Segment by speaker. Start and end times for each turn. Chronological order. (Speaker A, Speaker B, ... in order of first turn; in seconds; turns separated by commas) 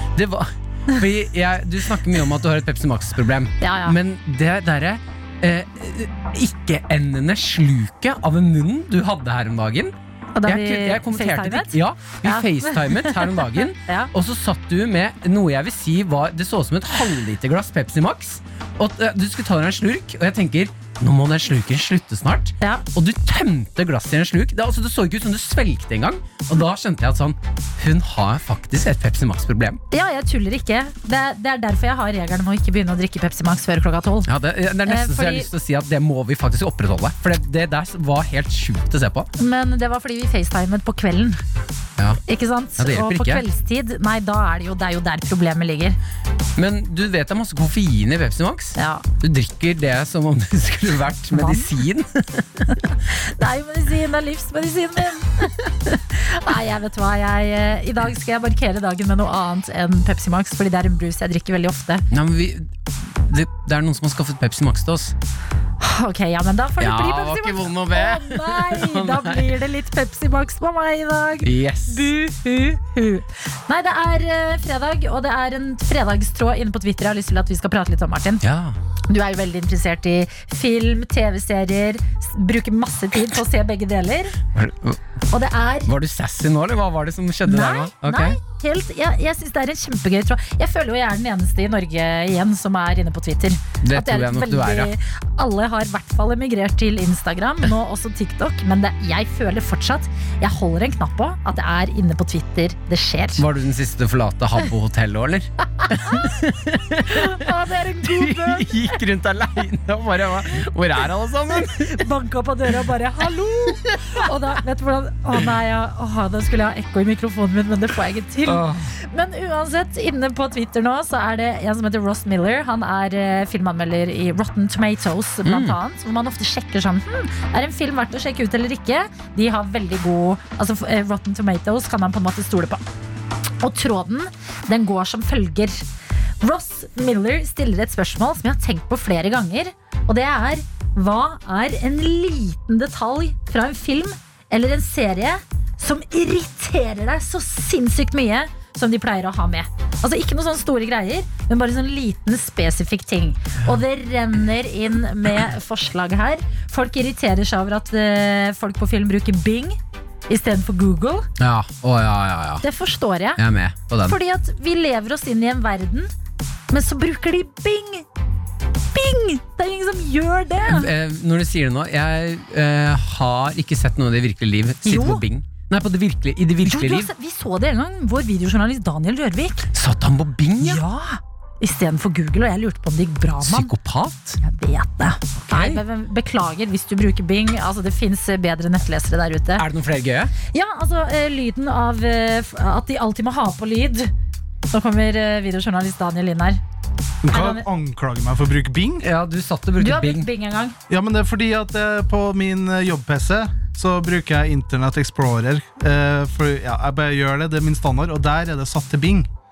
Speaker A: 0.1-29.8, Speaker B: 3.6-4.0, Speaker B: 10.3-14.1, Speaker B: 29.9-34.3, Speaker A: 34.2-39.3, Speaker B: 34.8-35.5, Speaker B: 39.4-41.4, Speaker B: 42.3-46.0, Speaker A: 42.8-43.4, Speaker A: 46.6-52.9, Speaker B: 48.8-49.0, Speaker B: 51.3-51.7, Speaker B: 53.2-62.0, Speaker A: 62.1-65.1, Speaker B: 65.8-78.4, Speaker A: 66.8-69.6, Speaker A: 71.4-72.1, Speaker A: 78.4-78.8, Speaker B: 79.1-84.4, Speaker A: 84.5-85.0, Speaker B: 85.3-85.9, Speaker A: 85.8-88.4, Speaker B: 87.5-103.4, Speaker A: 93.8-94.9, Speaker A: 103.4-112.1, Speaker B: 105.8-106.3, Speaker B: 107.1-108.9, Speaker B: 111.8-132.8, Speaker A: 118.5-118.9, Speaker A: 125.4-125.8, Speaker B: 133.6-135.8, Speaker B: 136.4-161.3, Speaker A: 161.4-162.6, Speaker B: 162.6-163.4, Speaker A: 163.4-164.2, Speaker B: 164.1-166.1, Speaker B: 166.7-168.1, Speaker B: 168.9-170.9, Speaker A: 170.7-177.1, Speaker B: 174.8-175.2, Speaker B: 176.6-179.7, Speaker A: 179.7-180.8, Speaker B: 180.6-183.7, Speaker A: 183.4-184.4, Speaker B: 184.4-189.7, Speaker A: 185.3-185.8, Speaker A: 189.6-190.3, Speaker B: 190.5-194.1, Speaker B: 194.7-196.6, Speaker C: 197.2-199.0, Speaker B: 197.3-197.6, Speaker A: 199.0-200.3, Speaker B: 199.8-200.8, Speaker C: 200.9-209.3